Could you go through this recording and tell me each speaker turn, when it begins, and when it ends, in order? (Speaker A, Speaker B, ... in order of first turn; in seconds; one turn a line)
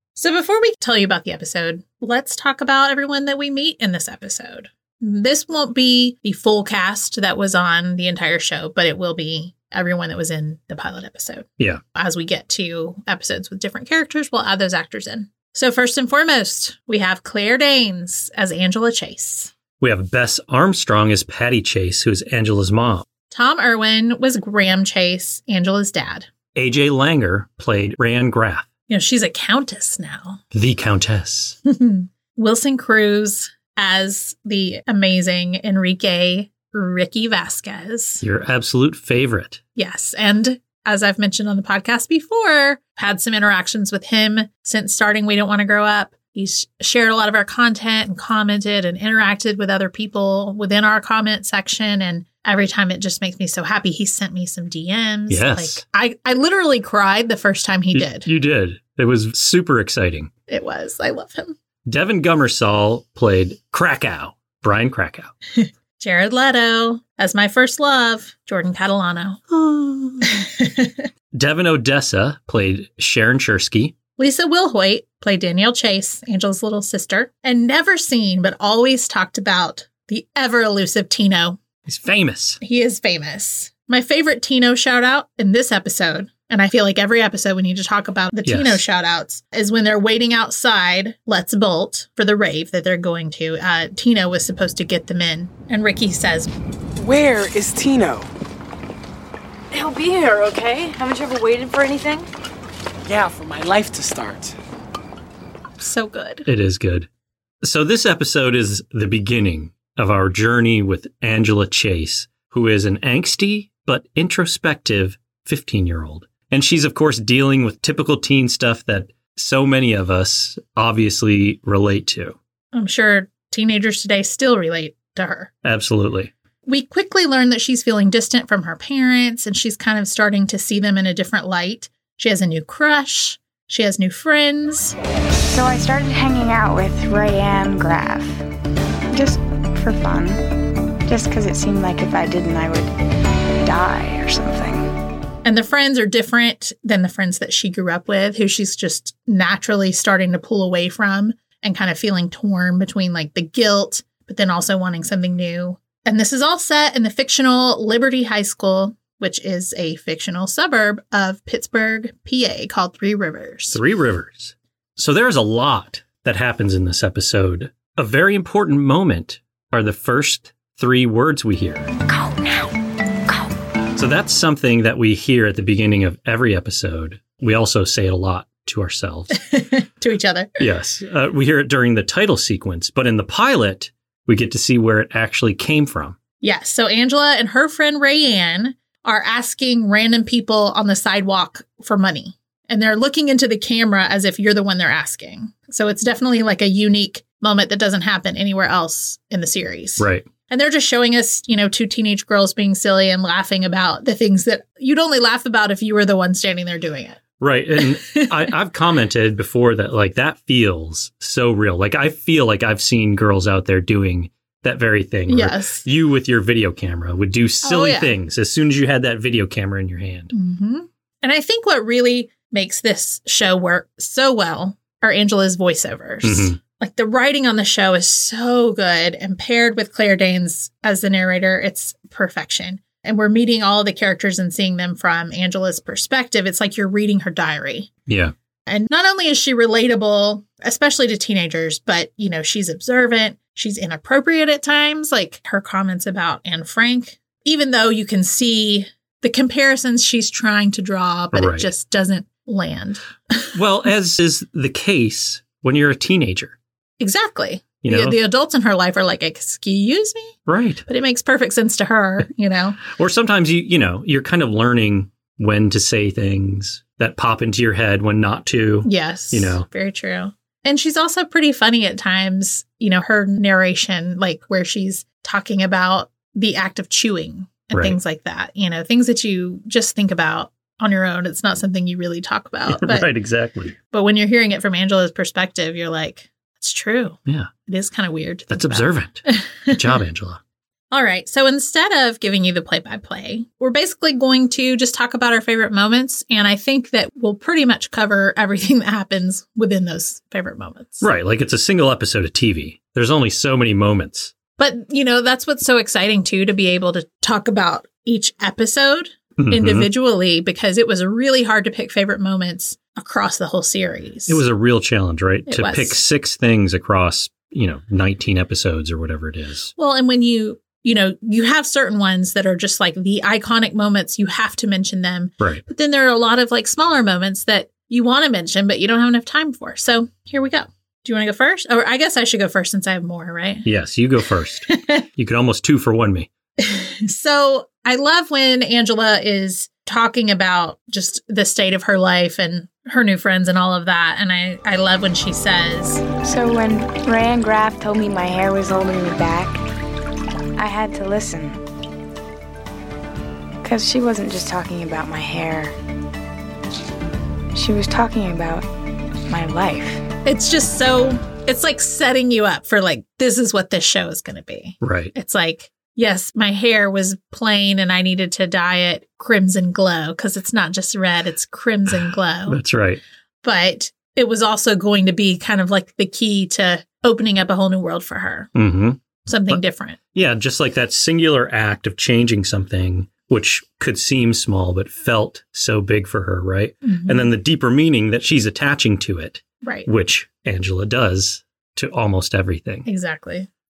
Speaker A: 0.1-19.5
Speaker B: 19.8-23.0
Speaker A: 23.3-26.3
Speaker B: 26.5-28.7
Speaker A: 28.9-30.4
Speaker B: 30.5-31.6
Speaker A: 31.6-38.2
Speaker B: 38.2-39.6
Speaker A: 39.8-58.3
Speaker B: 55.3-55.8
Speaker B: 57.9-60.3
Speaker A: 60.5-61.5
Speaker B: 61.9-65.3
Speaker A: 65.6-69.4
Speaker B: 69.5-70.2
Speaker A: 70.2-71.1
Speaker B: 71.3-73.9
Speaker A: 74.2-81.6
Speaker B: 81.8-82.6
Speaker A: 82.6-96.5
Speaker B: 88.5-88.8
Speaker C: 97.0-98.3
Speaker D: 99.7-102.3
Speaker C: 103.0-104.6
Speaker A: 105.8-106.5
Speaker B: 106.5-107.1
Speaker B: 107.6-122.4
Speaker A: 122.7-125.5
Speaker B: 125.6-126.3
Speaker A: 126.7-134.9
Speaker E: 135.4-138.4
Speaker E: 139.1-140.5
Speaker E: 141.1-142.9
Speaker E: 143.6-144.9
Speaker A: 145.4-163.8
Speaker B: 163.7-171.9
Speaker B: 173.9-179.4
Speaker A: 179.4-180.6
Speaker B: 180.6-186.2
Speaker A: 186.4-207.2
Speaker B: 200.0-200.2
Speaker B: 207.4-220.3
Speaker A: 207.8-208.4
Speaker A: 215.3-215.8
Speaker A: 217.6-218.1
Speaker A: 220.3-237.9
Speaker B: 226.2-226.6
Speaker B: 238.1-238.3
Speaker A: 238.7-253.5
Speaker B: 251.3-251.7
Speaker B: 253.6-256.5
Speaker A: 257.0-262.8
Speaker B: 257.8-258.2
Speaker B: 260.5-260.8
Speaker B: 262.9-269.6
Speaker A: 268.8-283.1
Speaker B: 282.7-283.8
Speaker A: 283.9-290.0
Speaker B: 288.5-290.4
Speaker A: 290.9-301.1
Speaker B: 301.0-304.3
Speaker A: 304.6-314.4
Speaker B: 309.4-309.9
Speaker B: 314.3-319.7
Speaker A: 315.5-316.0
Speaker A: 319.8-333.7
Speaker B: 333.6-336.3
Speaker A: 334.7-335.0
Speaker A: 336.6-346.0
Speaker E: 346.2-349.6
Speaker E: 350.6-351.6
Speaker E: 353.6-355.7
Speaker E: 357.5-358.7
Speaker E: 359.3-360.0
Speaker A: 360.2-372.6
Speaker B: 364.8-365.1
Speaker B: 372.5-373.0
Speaker A: 373.4-378.5
Speaker B: 378.5-379.6
Speaker A: 379.3-380.0
Speaker B: 380.1-392.9
Speaker A: 386.8-387.3
Speaker A: 389.6-389.9
Speaker A: 392.8-393.5